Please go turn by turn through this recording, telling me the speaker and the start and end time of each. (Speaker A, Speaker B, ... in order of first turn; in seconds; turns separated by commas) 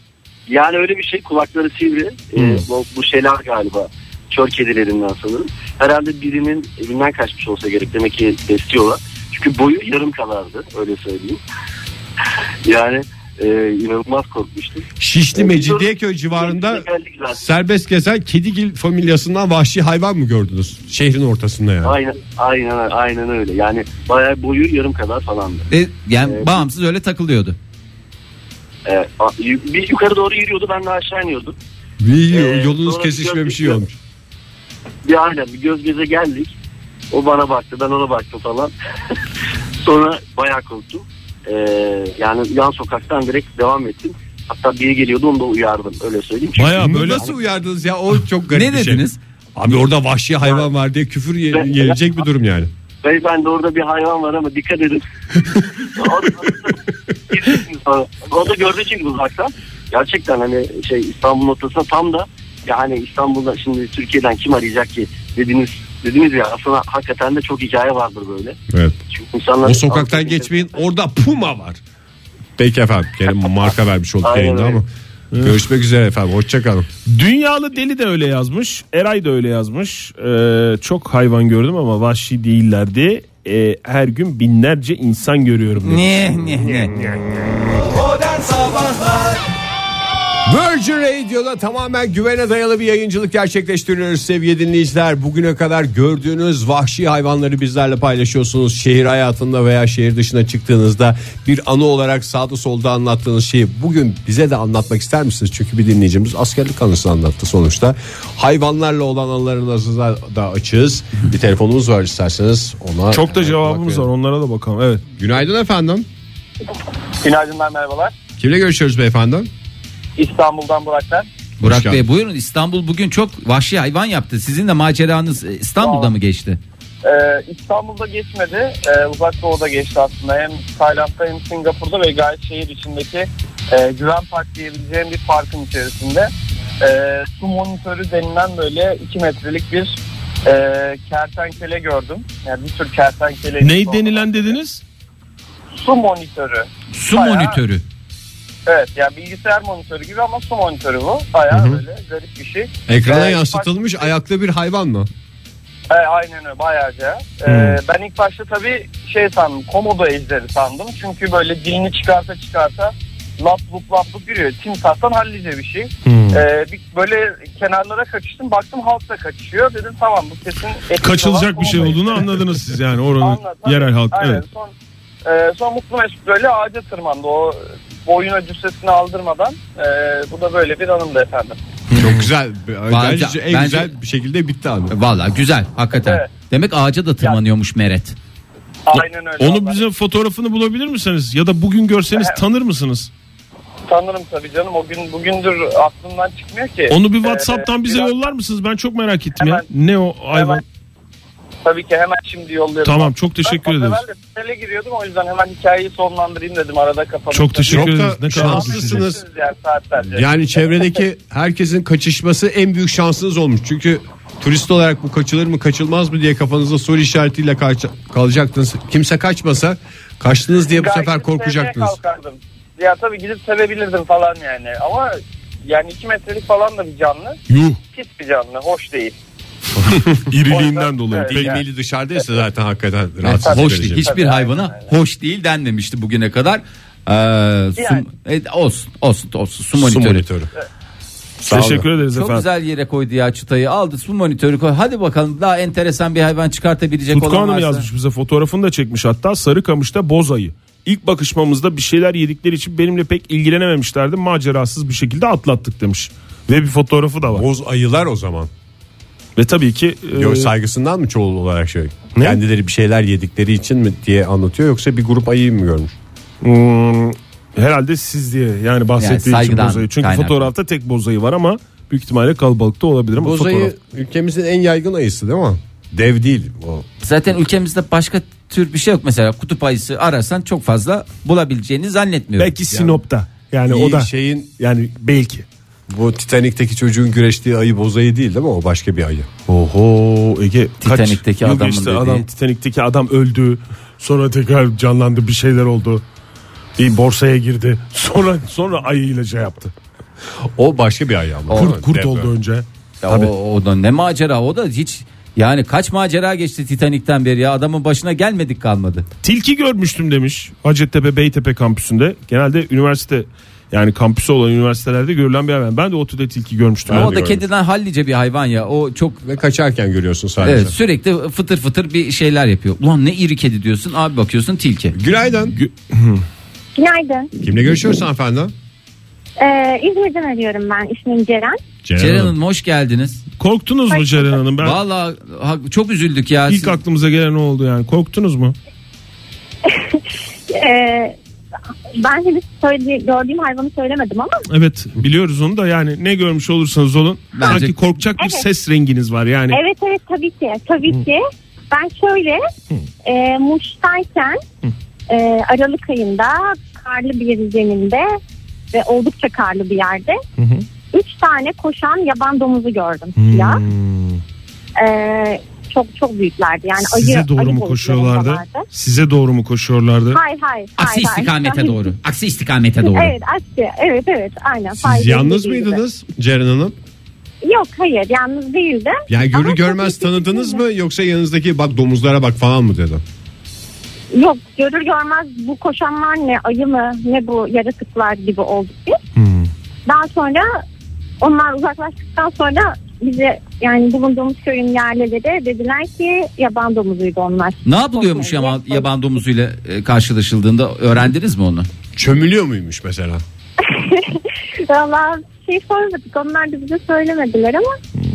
Speaker A: 0.5-11.4, Speaker A: 12.7-17.4, Speaker B: 15.0-22.0, Speaker A: 21.8-25.7, Speaker C: 25.7-27.6, Speaker A: 26.2-26.6, Speaker A: 28.9-31.6, Speaker B: 32.0-34.0, Speaker A: 32.3-33.8, Speaker A: 35.0-36.6, Speaker A: 37.1-38.7, Speaker A: 39.8-47.3, Speaker D: 46.6-47.3, Speaker B: 46.8-52.7, Speaker C: 48.5-49.2, Speaker A: 51.5-52.0, Speaker A: 53.0-55.0, Speaker A: 55.8-56.8, Speaker A: 57.3-68.6, Speaker B: 68.7-69.0, Speaker A: 69.1-70.5, Speaker B: 69.6-71.8, Speaker B: 72.6-74.9, Speaker A: 74.2-74.8, Speaker B: 75.4-76.9, Speaker D: 77.1-86.1, Speaker C: 85.8-86.9, Speaker D: 86.7-87.1, Speaker C: 88.7-89.0, Speaker B: 90.5-114.1, Speaker D: 113.1-115.0, Speaker B: 115.2-116.1, Speaker E: 117.2-118.1, Speaker B: 118.4-119.5, Speaker E: 120.2-121.3, Speaker B: 121.6-122.0, Speaker C: 121.6-126.6, Speaker E: 125.8-126.1, Speaker E: 127.0-144.6, Speaker D: 143.6-144.8, Speaker E: 145.7-147.6, Speaker C: 146.9-147.8, Speaker E: 148.7-154.1, Speaker B: 151.5-151.8, Speaker B: 152.9-155.1, Speaker E: 155.9-172.3, Speaker D: 157.5-157.8, Speaker D: 166.1-166.4, Speaker D: 171.0-174.4, Speaker E: 173.2-174.7, Speaker E: 175.2-181.6, Speaker D: 181.9-182.2, Speaker B: 181.9-184.9, Speaker C: 182.9-183.9, Speaker C: 184.9-188.2, Speaker E: 186.0-186.3, Speaker E: 188.9-189.8, Speaker D: 188.9-193.1, Speaker E: 192.1-192.4, Speaker E: 193.9-198.3, Speaker D: 196.9-200.6, Speaker E: 199.4-199.7, Speaker E: 200.3-200.6, Speaker E: 201.6-210.9, Speaker D: 202.8-204.0, Speaker D: 207.3-209.1, Speaker B: 207.7-209.2, Speaker B: 210.1-222.0, Speaker E: 220.7-227.4, Speaker D: 227.5-227.8, Speaker E: 227.9-229.2, Speaker D: 229.9-231.6, Speaker E: 230.4-231.6, Speaker B: 231.2-234.1, Speaker C: 233.2-240.3, Speaker E: 233.4-234.9, Speaker E: 237.8-238.1, Speaker B: 239.8-240.5, Speaker B: 241.4-241.9, Speaker D: 241.5-242.5, Speaker C: 242.1-247.9, Speaker D: 247.1-257.4, Speaker B: 257.3-258.5, Speaker D: 259.4-260.5, Speaker B: 260.2-265.9, Speaker D: 262.1-262.4, Speaker D: 266.4-273.7, Speaker C: 269.0-270.5, Speaker B: 273.2-276.9, Speaker C: 277.0-282.5, Speaker D: 282.4-285.4, Speaker B: 282.7-283.0, Speaker B: 283.7-284.5, Speaker B: 285.9-289.3, Speaker D: 289.5-296.0, Speaker C: 290.8-292.2, Speaker D: 296.8-299.7, Speaker B: 300.6-302.3, Speaker D: 301.5-303.3, Speaker C: 303.0-309.1, Speaker D: 309.2-317.2, Speaker B: 316.9-317.4, Speaker C: 316.9-319.2, Speaker B: 319.2-320.8, Speaker C: 320.4-324.9, Speaker B: 324.9-325.6, Speaker D: 325.5-326.2, Speaker F: 326.8-327.3, Speaker B: 327.4-328.5, Speaker F: 329.4-331.6, Speaker B: 331.9-332.4, Speaker C: 332.0-333.2, Speaker D: 333.4-334.8, Speaker C: 334.6-336.8, Speaker D: 336.5-338.6, Speaker F: 339.7-341.2, Speaker F: 342.0-344.4, Speaker D: 344.5-349.6, Speaker C: 347.3-347.7, Speaker F: 348.2-348.5, Speaker F: 349.5-352.5, Speaker F: 353.0-354.4, Speaker F: 355.1-358.2, Speaker F: 358.7-360.2, Speaker D: 360.4-360.6, Speaker F: 360.9-363.6, Speaker D: 363.2-364.2, Speaker F: 364.8-368.6, Speaker D: 366.8-370.2, Speaker F: 370.1-371.9, Speaker C: 370.8-373.1, Speaker F: 372.9-375.8, Speaker B: 374.8-376.7, Speaker F: 377.4-380.6, Speaker B: 379.1-383.0, Speaker F: 384.1-389.0, Speaker D: 389.2-389.5, Speaker F: 389.9-390.6, Speaker F: 391.2-398.9, Speaker C: 397.6-401.7, Speaker B: 402.0-403.2, Speaker F: 403.6-407.8